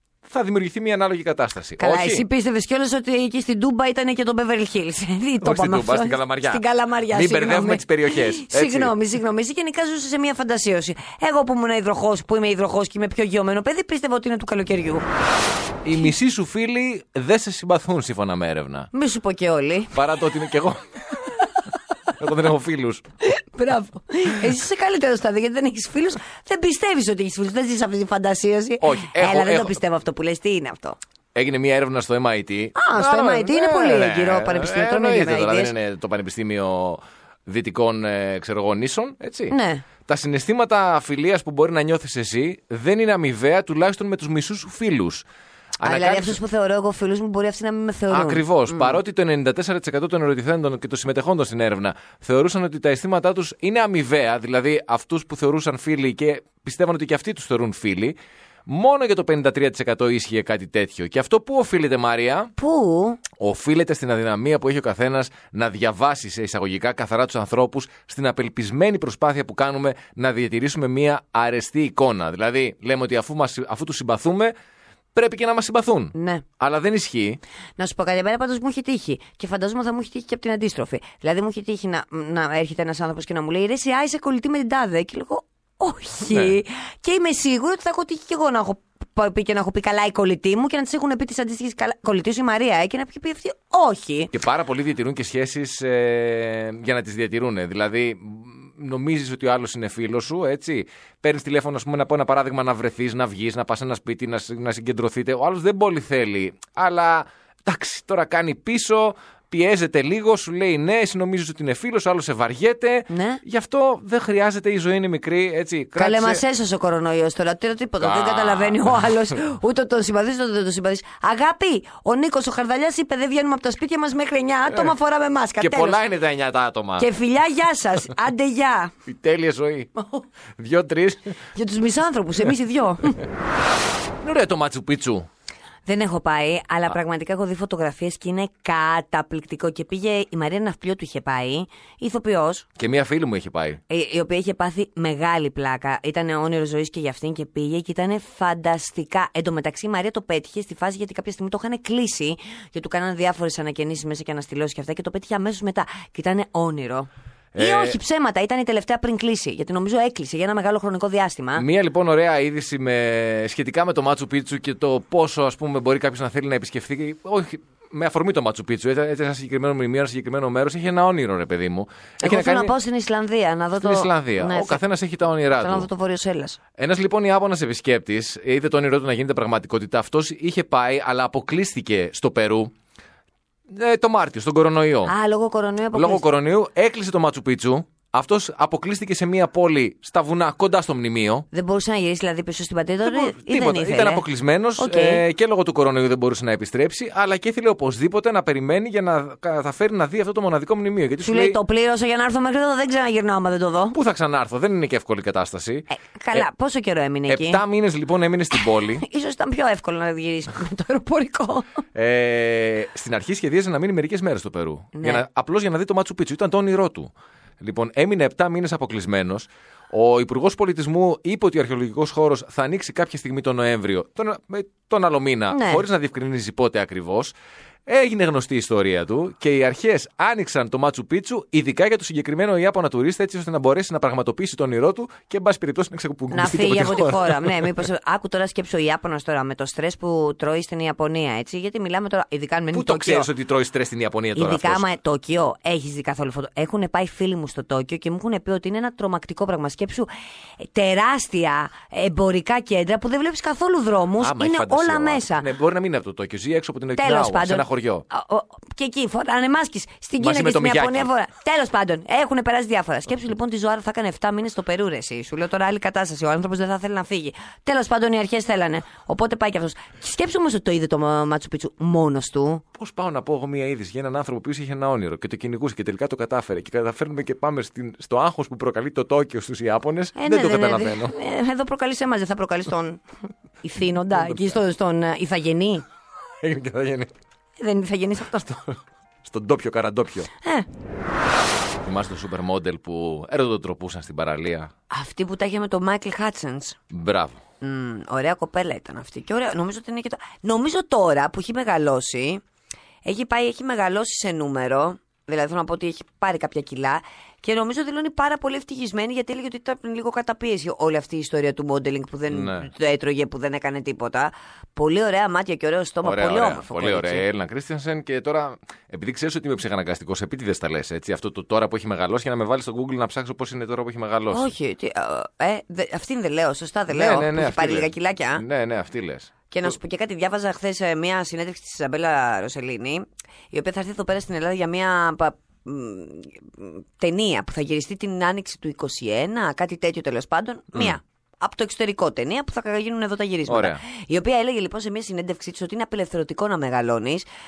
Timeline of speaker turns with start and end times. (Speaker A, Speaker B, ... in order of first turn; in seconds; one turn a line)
Speaker A: 0.2-2.2
Speaker B: 1.8-15.0
Speaker A: 5.4-8.9
Speaker A: 15.8-18.9
Speaker B: 18.9-19.9
Speaker A: 19.9-21.2
Speaker A: 22.1-23.0
Speaker B: 23.2-31.0
Speaker A: 28.8-29.8
Speaker A: 31.3-39.5
Speaker B: 32.7-35.7
Speaker B: 39.5-39.8
Speaker A: 40.0-45.2
Speaker A: 45.8-46.4
Speaker B: 45.8-49.0
Speaker A: 48.1-62.5
Speaker B: 62.6-63.2
Speaker A: 63.4-74.5
Speaker A: 75.1-77.4
Speaker B: 76.1-76.4
Speaker B: 77.8-94.3
Speaker A: 86.3-86.5
Speaker A: 94.3-116.4
Speaker B: 113.1-113.4
Speaker B: 116.0-126.0
Speaker A: 118.0-119.2
Speaker A: 125.6-127.1
Speaker B: 127.0-128.9
Speaker A: 129.1-129.9
Speaker A: 130.6-131.3
Speaker B: 131.5-133.2
Speaker A: 134.2-135.3
Speaker B: 135.8-142.7
Speaker A: 142.8-143.8
Speaker B: 143.9-161.6
Speaker A: 157.5-158.0
Speaker A: 161.6-172.7
Speaker B: 172.2-174.8
Speaker A: 173.8-175.9
Speaker B: 175.6-176.6
Speaker A: 176.8-182.7
Speaker A: 183.7-185.1
Speaker B: 185.1-186.2
Speaker A: 185.9-191.4
Speaker B: 191.5-194.2
Speaker A: 193.0-201.6
Speaker B: 194.8-195.2
Speaker B: 201.2-203.9
Speaker A: 203.9-206.4
Speaker B: 205.9-207.6
Speaker A: 207.3-209.0
Speaker B: 208.9-211.7
Speaker A: 211.9-227.3
Speaker B: 214.9-215.2
Speaker B: 225.5-225.8
Speaker A: 227.9-237.8
Speaker B: 236.3-243.3
Speaker A: 242.7-244.8
Speaker B: 244.3-250.1
Speaker B: 250.6-255.5
Speaker A: 254.2-258.1
Speaker B: 257.0-272.6
Speaker A: 260.2-261.1
Speaker A: 272.8-281.1
Speaker B: 280.1-283.0
Speaker B: 283.6-285.8
Speaker A: 284.1-284.6
Speaker A: 286.4-287.1
Speaker B: 287.6-288.6
Speaker A: 289.2-290.3
Speaker B: 290.4-290.7
Speaker A: 291.8-294.7
Speaker B: 294.9-296.8
Speaker A: 296.9-297.4
Speaker B: 297.6-302.4
Speaker B: 303.0-317.2
Speaker A: 312.3-312.7
Speaker A: 316.0-324.5
Speaker B: 324.3-328.4
Speaker A: 326.9-329.3
Speaker B: 329.5-347.2
Speaker A: 343.5-343.8